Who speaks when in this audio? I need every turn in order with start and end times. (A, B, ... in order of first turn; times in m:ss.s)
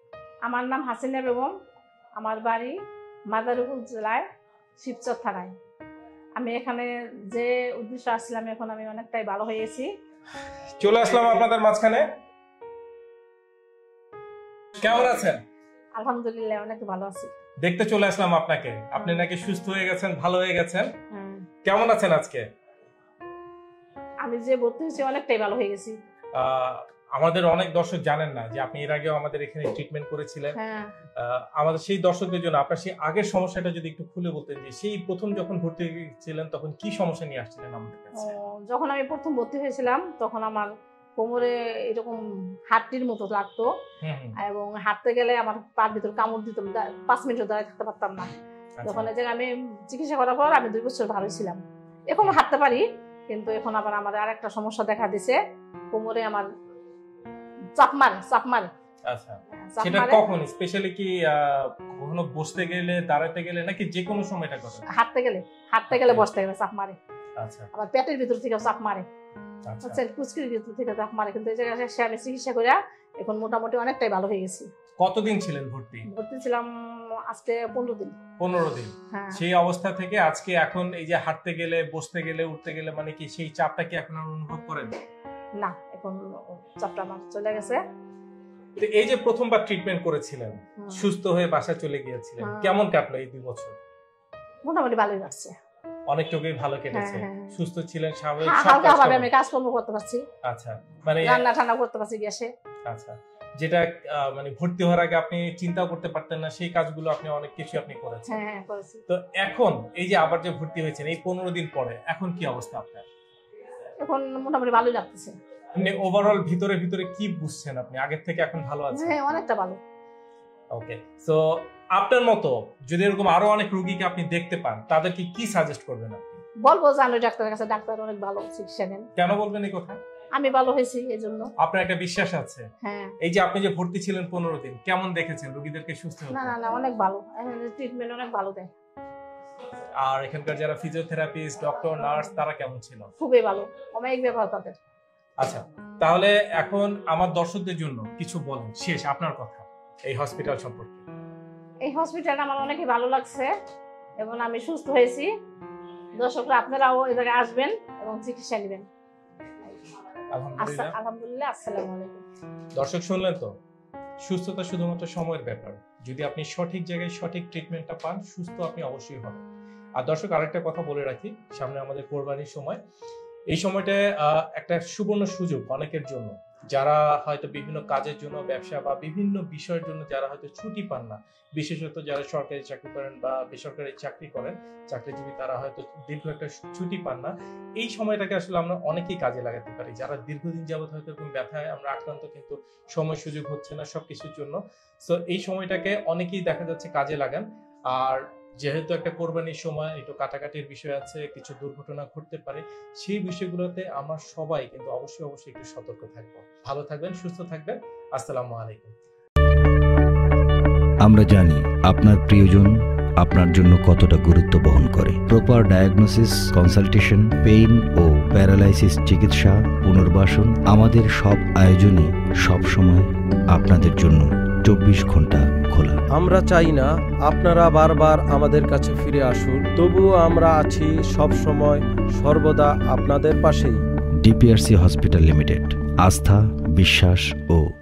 0:00.4-0:01.5 A
0:02.2-0:02.8 A
0:03.3-0:04.2 A
0:04.8-0:05.5 A
0:06.4-0:09.9 A
0:10.8-0:12.1 B
0:14.8-0:15.4 B
0:16.0-0:17.3 A
0:17.6-0:20.9 B
0:19.0-0:19.2 A
0:21.1-0:21.5 A
0:21.6-0:22.4 B
0:24.2-0:26.0 A
0:26.4-0:30.6 B
0:30.6-0:30.9 A
0:31.2-0:38.4 B
0:38.2-0:43.7 A
0:44.0-0:44.4 B
0:44.4-0:48.3 A
0:48.8-0:49.1 B
0:48.8-0:55.4 A
0:55.9-0:56.5 A
0:57.8-0:58.7 A
0:59.1-1:04.8 B
0:59.7-1:00.2 A
1:04.9-1:07.0 A
1:05.9-1:06.3 B
1:07.4-1:07.7 B
1:07.7-1:09.0 A
1:09.7-1:10.0 B
1:09.8-1:14.7 A
1:15.0-1:16.1 B
1:16.1-1:16.7 A
1:17.3-1:18.2 A
1:18.4-1:25.0 B
1:19.1-1:19.4 A
1:25.6-1:27.8 A
1:28.8-1:33.8 B
1:30.8-1:31.1 A
1:32.4-1:32.8 A
1:34.6-1:35.5 A
1:36.1-1:39.3 B
1:36.9-1:37.6 A
1:38.4-1:40.2 A
1:40.4-1:41.4 B
1:41.3-1:42.5 A
1:42.9-1:48.4 B
1:48.3-1:49.0 A
1:49.1-1:53.0 B
1:54.0-1:55.3 A
1:55.8-1:59.2 B
1:58.9-1:59.8 A
2:00.7-2:06.4 B
2:06.6-2:09.1 A
2:09.2-2:10.0 B
2:10.4-2:11.5 A
2:11.6-2:12.7 B
2:12.8-2:13.1 A
2:13.2-2:16.6 B
2:16.3-2:18.7 A
2:20.0-2:23.1 B
2:23.2-2:24.8 A
2:25.4-2:31.0 B
2:31.8-2:33.5 A
2:34.2-2:35.3 A
2:36.2-2:38.9 A
2:40.3-2:41.0 B
2:40.6-2:42.2 A
2:42.8-2:43.5 B
2:44.2-2:49.4 B
2:50.0-2:52.8 B
2:53.5-3:28.9 B
3:31.0-3:46.0 C
3:46.1-3:53.8 D
3:54.2-3:57.6 C